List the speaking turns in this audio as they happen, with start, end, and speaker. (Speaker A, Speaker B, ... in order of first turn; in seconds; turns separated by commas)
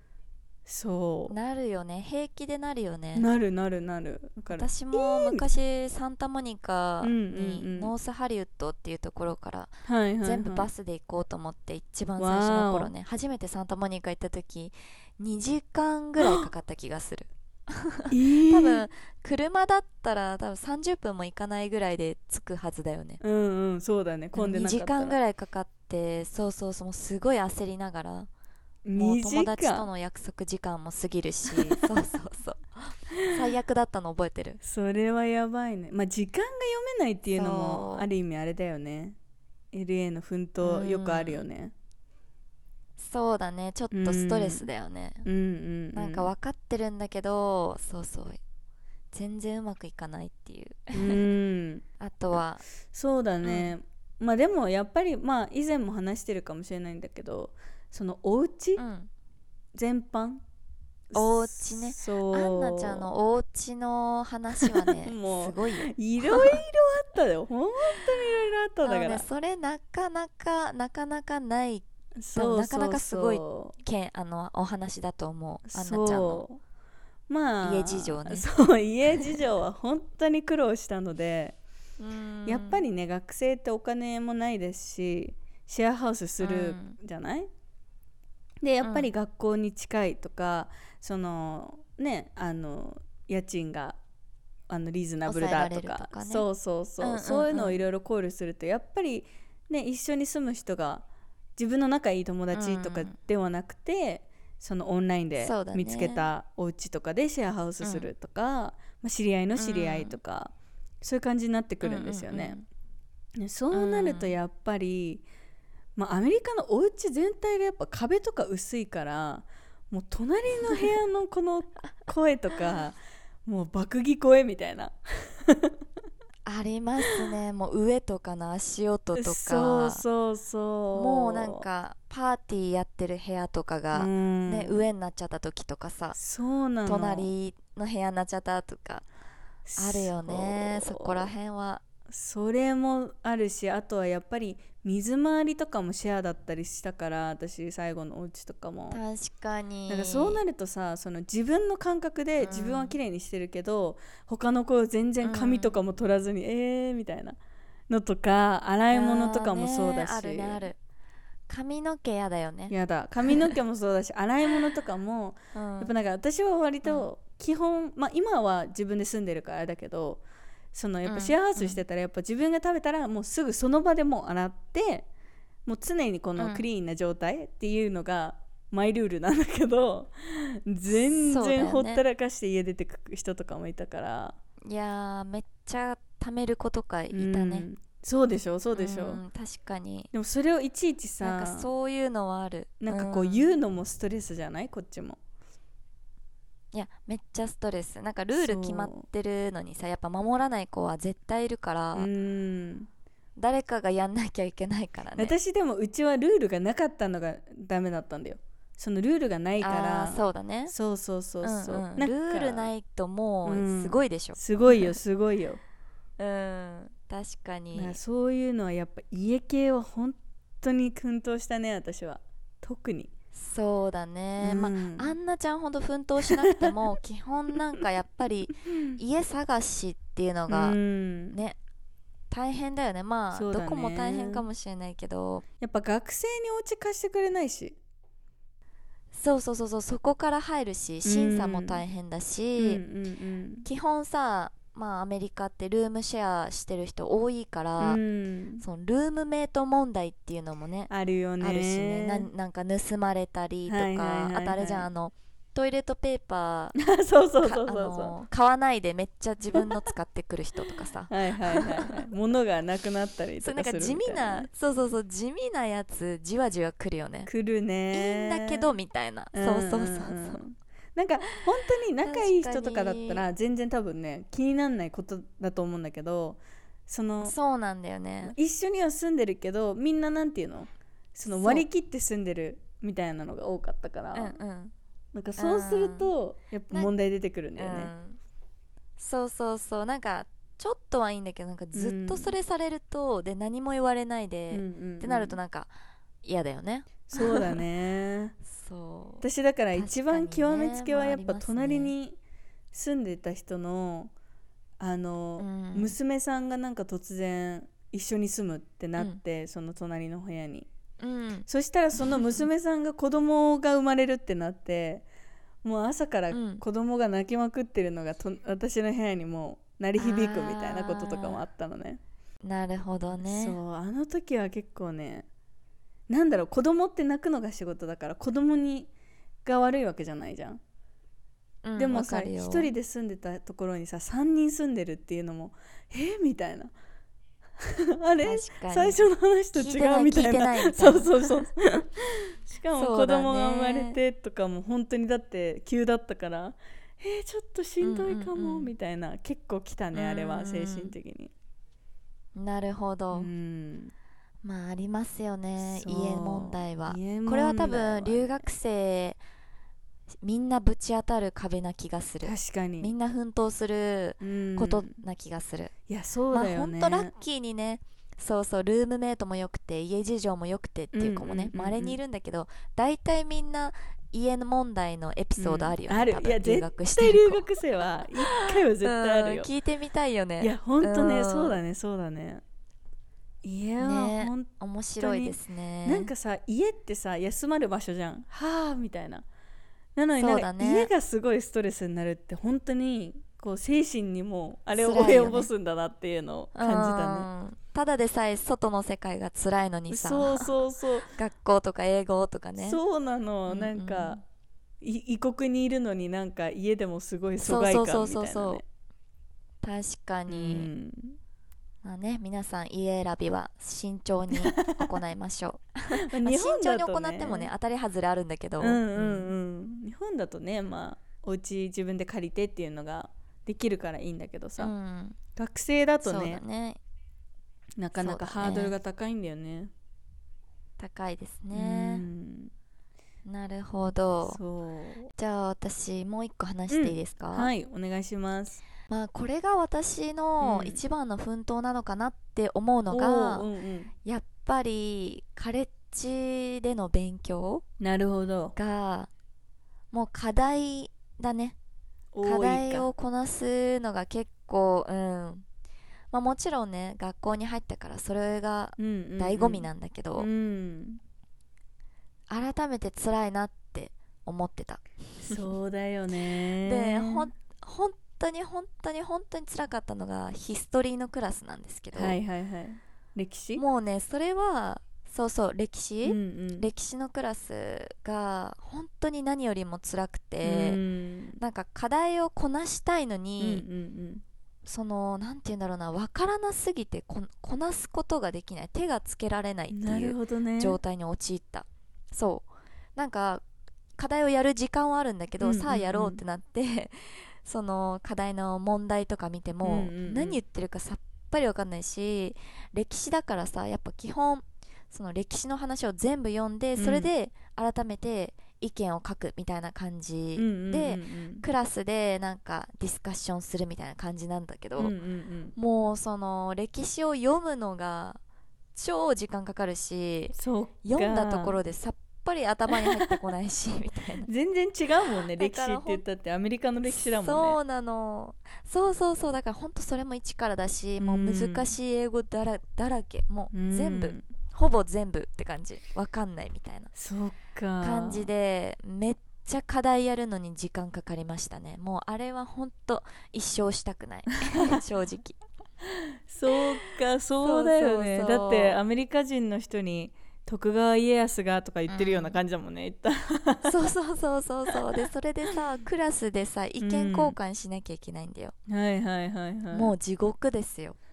Speaker A: 0.7-1.3, Speaker B: 1.3-3.3, Speaker A: 3.2-5.4, Speaker B: 4.5-23.2, Speaker A: 7.0-7.9, Speaker A: 9.9-10.7, Speaker A: 12.2-12.9, Speaker A: 16.2-16.5, Speaker A: 18.1-18.9, Speaker A: 23.2-25.2, Speaker B: 24.3-28.3, Speaker A: 28.9-29.9, Speaker B: 29.0-34.6, Speaker A: 31.5-31.9, Speaker A: 33.1-33.4, Speaker A: 34.6-39.2, Speaker B: 37.3-38.1, Speaker A: 39.7-41.7, Speaker B: 40.6-41.4, Speaker B: 43.0-45.3, Speaker A: 43.9-44.7, Speaker A: 45.2-46.3, Speaker B: 45.9-48.4, Speaker B: 49.1-51.3, Speaker A: 50.9-51.8, Speaker B: 52.0-52.6, Speaker A: 52.9-58.8, Speaker B: 53.4-53.7, Speaker B: 58.8-59.1, Speaker A: 59.7-60.4, Speaker A: 61.1-63.1, Speaker B: 61.1-66.6, Speaker A: 64.6-69.2, Speaker B: 67.9-68.2, Speaker B: 68.8-76.4, Speaker A: 72.2-73.8, Speaker A: 75.7-76.6, Speaker A: 77.3-81.6, Speaker B: 77.6-78.5, Speaker B: 82.0-82.8, Speaker A: 82.5-87.5, Speaker B: 86.4-87.0, Speaker A: 88.6-94.0, Speaker B: 88.8-89.1, Speaker A: 94.7-101.0, Speaker B: 95.3-96.5, Speaker B: 97.0-97.8, Speaker A: 101.6-112.6, Speaker B: 102.5-103.2, Speaker B: 105.4-106.3, Speaker B: 107.8-108.1, Speaker B: 109.6-110.2, Speaker B: 111.8-112.7, Speaker A: 113.4-115.2, Speaker B: 113.7-114.3, Speaker A: 116.0-125.8, Speaker B: 126.5-130.0, Speaker A: 129.2-131.6, Speaker B: 130.9-136.2, Speaker A: 133.9-134.8, Speaker A: 136.2-137.3, Speaker B: 136.8-139.1, Speaker A: 139.7-141.3, Speaker B: 139.8-141.8, Speaker A: 142.1-149.0, Speaker B: 148.9-150.4, Speaker A: 149.9-157.4, Speaker B: 152.4-153.0, Speaker B: 155.2-155.8, Speaker A: 157.9-160.6, Speaker B: 158.9-160.8, Speaker B: 161.5-162.7, Speaker A: 162.7-170.2, Speaker B: 163.3-163.6, Speaker B: 165.6-165.9, Speaker B: 166.8-167.1, Speaker A: 170.7-175.1, Speaker B: 171.1-171.8, Speaker A: 175.7-184.4, Speaker B: 176.4-176.7, Speaker B: 181.0-182.0, Speaker B: 184.7-187.7, Speaker A: 187.1-189.2, Speaker B: 188.7-190.1, Speaker A: 190.1-191.7, Speaker B: 191.2-193.5, Speaker A: 192.8-195.2, Speaker B: 196.7-202.1, Speaker A: 198.4-199.0, Speaker A: 201.9-202.9, Speaker B: 203.4-205.4, Speaker A: 205.2-212.7, Speaker B: 209.6-210.7, Speaker B: 211.4-215.0, Speaker A: 213.5-215.6, Speaker B: 216.2-218.0, Speaker A: 217.8-223.1, Speaker B: 223.3-230.8, Speaker A: 224.4-225.1, Speaker A: 226.3-226.9, Speaker A: 228.6-229.0, Speaker A: 230.5-231.4, Speaker B: 231.3-231.6, Speaker B: 232.3-235.4, Speaker A: 233.3-234.5, Speaker A: 235.6-237.8, Speaker B: 239.1-242.8, Speaker A: 241.0-241.8, Speaker A: 242.6-243.7, Speaker B: 243.6-248.0, Speaker A: 247.8-248.6, Speaker B: 248.6-256.8, Speaker A: 250.9-252.3, Speaker A: 253.7-254.9, Speaker A: 256.8-258.1, Speaker B: 257.4-262.1, Speaker A: 259.5-259.9, Speaker A: 261.1-264.5, Speaker B: 263.4-267.3, Speaker A: 267.3-268.7, Speaker B: 267.9-270.4, Speaker A: 269.3-277.4, Speaker B: 272.0-273.2, Speaker B: 277.2-278.4, Speaker A: 278.2-284.4, Speaker B: 281.3-281.7, Speaker B: 284.1-284.7, Speaker A: 285.1-287.9, Speaker B: 285.4-286.1, Speaker B: 287.6-288.2, Speaker B: 289.0-295.7, Speaker A: 291.7-292.3, Speaker A: 294.5-295.4, Speaker B: 296.2-297.6, Speaker A: 297.1-298.4, Speaker B: 298.4-301.9, Speaker A: 299.2-302.2, Speaker A: 302.7-304.1, Speaker A: 304.8-310.7, Speaker B: 305.4-305.9, Speaker B: 311.0-312.5, Speaker A: 311.5-315.1, Speaker A: 315.6-322.0, Speaker B: 316.3-316.6, Speaker B: 320.0-321.4, Speaker B: 322.4-323.6, Speaker A: 323.1-325.3, Speaker A: 326.1-328.9, Speaker A: 329.4-330.6, Speaker B: 331.6-332.7, Speaker A: 331.8-336.7, Speaker A: 337.6-351.3, Speaker B: 338.2-339.0, Speaker B: 339.6-341.5, Speaker B: 342.7-344.0, Speaker B: 347.8-348.7, Speaker B: 349.9-350.9, Speaker B: 352.4-353.3, Speaker A: 353.1-353.9, Speaker B: 354.4-359.2, Speaker A: 355.6-358.5, Speaker B: 360.2-365.7, Speaker A: 362.2-362.9, Speaker A: 364.2-365.0, Speaker A: 365.9-367.1, Speaker B: 366.3-377.5, Speaker A: 370.9-372.0, Speaker A: 375.4-379.5, Speaker B: 378.2-381.6, Speaker A: 380.4-382.4, Speaker A: 383.4-384.5, Speaker B: 383.8-386.1, Speaker A: 385.0-389.2, Speaker A: 390.0-397.3, Speaker B: 390.2-390.9, Speaker B: 394.7-395.5, Speaker B: 396.6-400.5, Speaker A: 399.9-401.1, Speaker B: 401.1-402.8, Speaker A: 402.6-404.2, Speaker B: 403.5-404.2, Speaker A: 404.8-408.6, Speaker B: 407.4-408.6, Speaker B: 409.6-410.7, Speaker A: 410.3-411.2, Speaker B: 411.8-419.3, Speaker A: 414.3-414.9, Speaker A: 416.0-417.5, Speaker A: 418.6-424.7, Speaker B: 424.6-425.2, Speaker A: 425.4-426.4, Speaker B: 426.0-426.8, Speaker A: 427.8-429.7, Speaker B: 428.0-428.8, Speaker B: 430.8-432.1, Speaker A: 431.5-432.5, Speaker B: 433.3-434.4, Speaker A: 434.2-435.1, Speaker B: 435.1-437.5, Speaker A: 436.7-438.6, Speaker B: 438.9-443.5, Speaker A: 440.4-440.8, Speaker A: 442.9-443.9, Speaker B: 444.1-447.6, Speaker A: 447.8-448.6, Speaker B: 448.6-449.1, Speaker B: 449.9-451.6, Speaker A: 452.1-452.9, Speaker B: 452.2-455.4, Speaker B: 456.1-460.3, Speaker A: 458.8-461.0, Speaker B: 462.3-465.4, Speaker A: 465.2-467.3, Speaker B: 466.6-472.2, Speaker A: 471.9-473.6, Speaker B: 473.6-480.8, Speaker A: 476.0-476.7, Speaker A: 480.4-481.4, Speaker B: 481.4-483.6, Speaker A: 483.4-484.2, Speaker B: 484.6-493.4, Speaker A: 489.7-490.8, Speaker B: 494.0-514.9, Speaker A: 495.4-496.2, Speaker A: 499.6-500.4, Speaker A: 506.8-507.1, Speaker A: 510.4-511.4, Speaker A: 514.8-515.5, Speaker B: 515.6-518.2, Speaker B: 518.8-524.3, Speaker A: 520.4-521.6, Speaker A: 522.7-523.1, Speaker A: 524.3-527.6, Speaker B: 525.3-526.0, Speaker B: 526.9-536.9, Speaker A: 531.0-531.7, Speaker A: 533.5-534.2, Speaker A: 537.0-538.3, Speaker B: 537.8-545.4, Speaker A: 544.5-544.8, Speaker A: 545.8-553.7, Speaker B: 546.5-548.8, Speaker B: 551.9-552.4, Speaker B: 553.6-558.5, Speaker A: 554.7-555.0, Speaker A: 556.8-557.4, Speaker A: 558.7-559.9, Speaker B: 559.7-561.0